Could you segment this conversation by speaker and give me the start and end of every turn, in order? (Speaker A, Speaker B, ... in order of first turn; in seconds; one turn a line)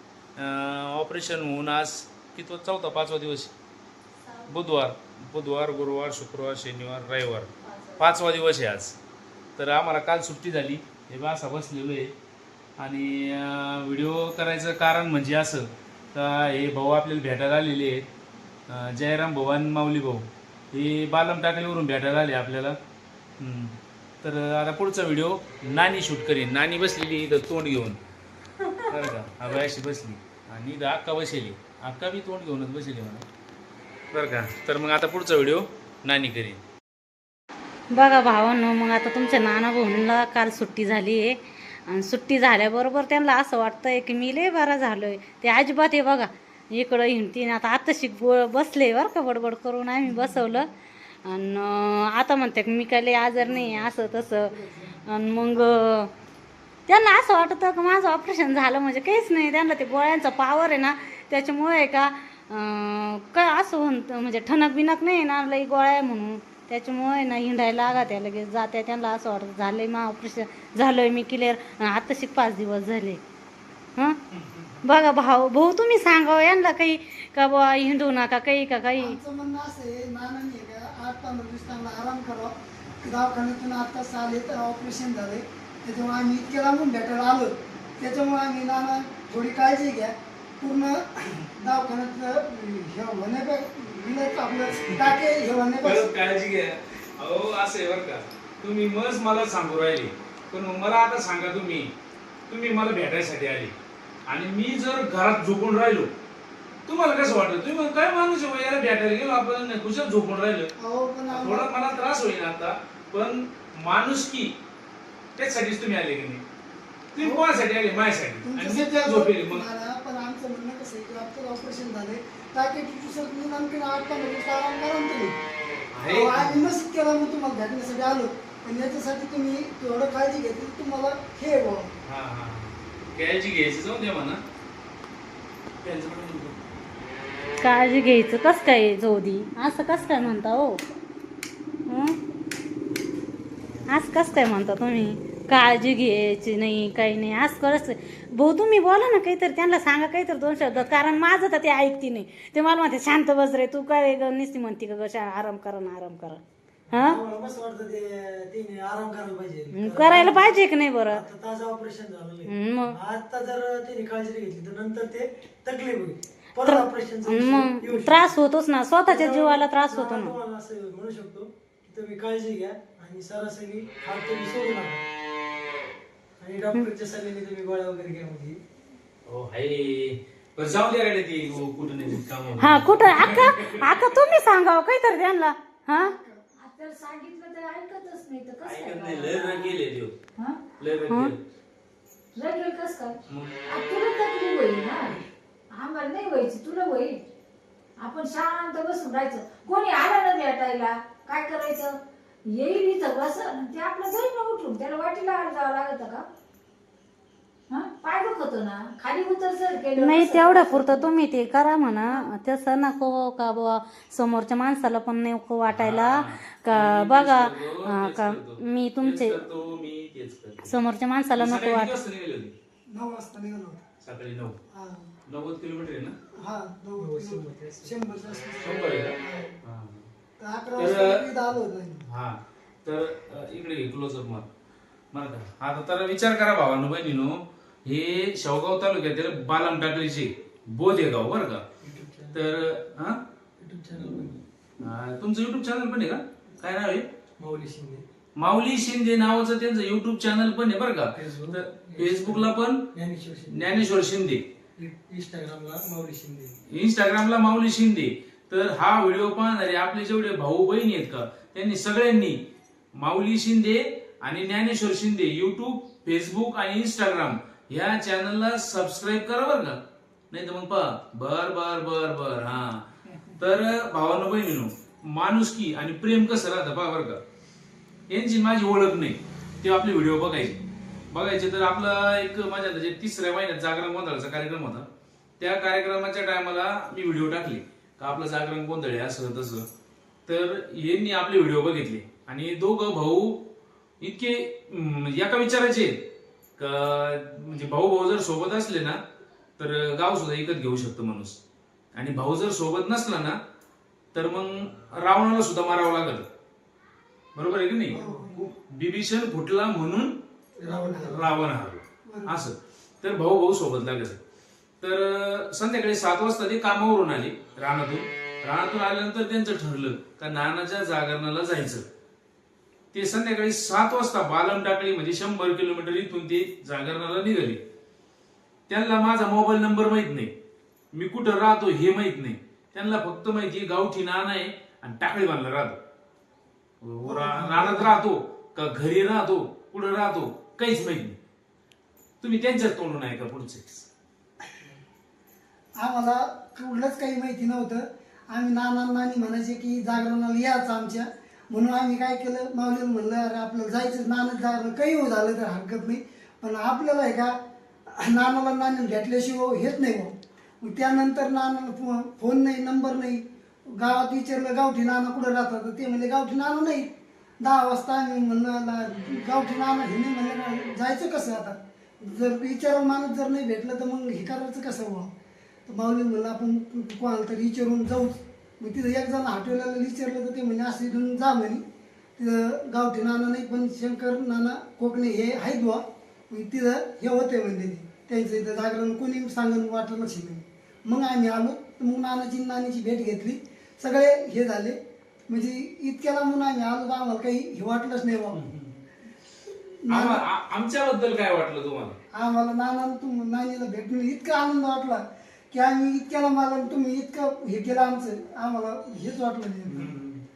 Speaker A: 0.4-3.5
Speaker A: 4.5-8.9
Speaker A: 9.6-12.1
Speaker A: 12.8-18.1
Speaker A: 18.7-22.8
Speaker A: 23.4-28.0
Speaker A: 28.9-33.2
Speaker A: 34.1-36.6
Speaker B: 37.9-50.7
Speaker B: 51.2-56.1
Speaker C: 54.4-55.0
Speaker B: 56.9-73.2
Speaker A: 74.3-74.8
Speaker B: 74.8-79.2
Speaker C: 79.0-96.1
Speaker A: 94.8-95.1
Speaker A: 95.8-101.9
Speaker A: 102.5-103.7
Speaker A: 104.3-106.1
Speaker A: 106.9-110.7
Speaker C: 110.8-111.7
Speaker A: 111.3-114.5
Speaker A: 115.4-116.4
Speaker A: 117.1-119.7
Speaker C: 117.2-117.5
Speaker C: 118.4-125.4
Speaker A: 125.9-126.7
Speaker C: 126.0-131.9
Speaker A: 132.0-134.4
Speaker A: 135.8-136.6
Speaker B: 137.6-140.8
Speaker A: 139.9-140.4
Speaker B: 141.9-142.2
Speaker B: 143.9-156.4
Speaker D: 156.9-168.3
Speaker B: 156.9-157.2
Speaker B: 159.7-161.2
Speaker B: 162.5-162.9
Speaker B: 166.6-170.3
Speaker D: 169.1-175.0
Speaker D: 176.4-178.6
Speaker A: 179.3-184.0
Speaker B: 182.6-186.1
Speaker C: 185.9-186.4
Speaker E: 186.6-189.8
Speaker A: 188.6-190.1
Speaker E: 190.4-190.6
Speaker A: 190.8-191.4
Speaker E: 192.3-197.2
Speaker A: 193.3-193.6
Speaker E: 198.0-206.2
Speaker E: 207.7-211.1
Speaker B: 210.0-219.4
Speaker A: 215.7-220.8
Speaker B: 220.7-222.0
Speaker A: 221.3-222.5
Speaker C: 222.9-223.8
Speaker A: 224.0-224.6
Speaker C: 224.7-225.1
Speaker A: 225.3-226.2
Speaker C: 226.4-229.5
Speaker D: 227.0-228.0
Speaker A: 228.6-230.1
Speaker C: 230.4-232.0
Speaker A: 230.8-231.2
Speaker A: 232.1-234.5
Speaker A: 235.1-241.6
Speaker D: 241.8-242.5
Speaker A: 242.3-243.2
Speaker D: 243.6-244.4
Speaker A: 244.8-247.1
Speaker D: 247.4-248.0
Speaker A: 248.4-252.8
Speaker D: 251.2-253.8
Speaker A: 253.5-254.4
Speaker D: 254.8-256.5
Speaker A: 256.7-262.4
Speaker A: 262.9-269.8
Speaker A: 270.3-277.2
Speaker A: 278.1-280.6
Speaker A: 281.1-284.9
Speaker A: 285.4-289.7
Speaker A: 290.3-293.4
Speaker A: 294.0-296.0
Speaker A: 296.6-299.0
Speaker A: 299.6-301.4
Speaker A: 301.9-303.4
Speaker A: 304.1-306.3
Speaker A: 307.3-308.0
Speaker C: 307.9-308.4
Speaker D: 308.0-308.4
Speaker A: 308.6-310.1
Speaker C: 310.6-311.2
Speaker D: 310.6-311.1
Speaker A: 311.0-314.2
Speaker C: 312.1-312.4
Speaker A: 314.8-321.9
Speaker A: 322.9-327.6
Speaker A: 328.7-330.3
Speaker A: 330.9-335.8
Speaker A: 336.8-341.2
Speaker C: 337.0-338.0
Speaker A: 342.2-343.9
Speaker C: 345.8-357.4
Speaker C: 357.9-375.1
Speaker C: 375.7-381.6
Speaker C: 382.2-394.8
Speaker C: 395.3-398.4
Speaker A: 398.3-398.8
Speaker C: 399.8-400.2
Speaker A: 399.9-402.0
Speaker C: 402.1-409.9
Speaker A: 409.7-410.2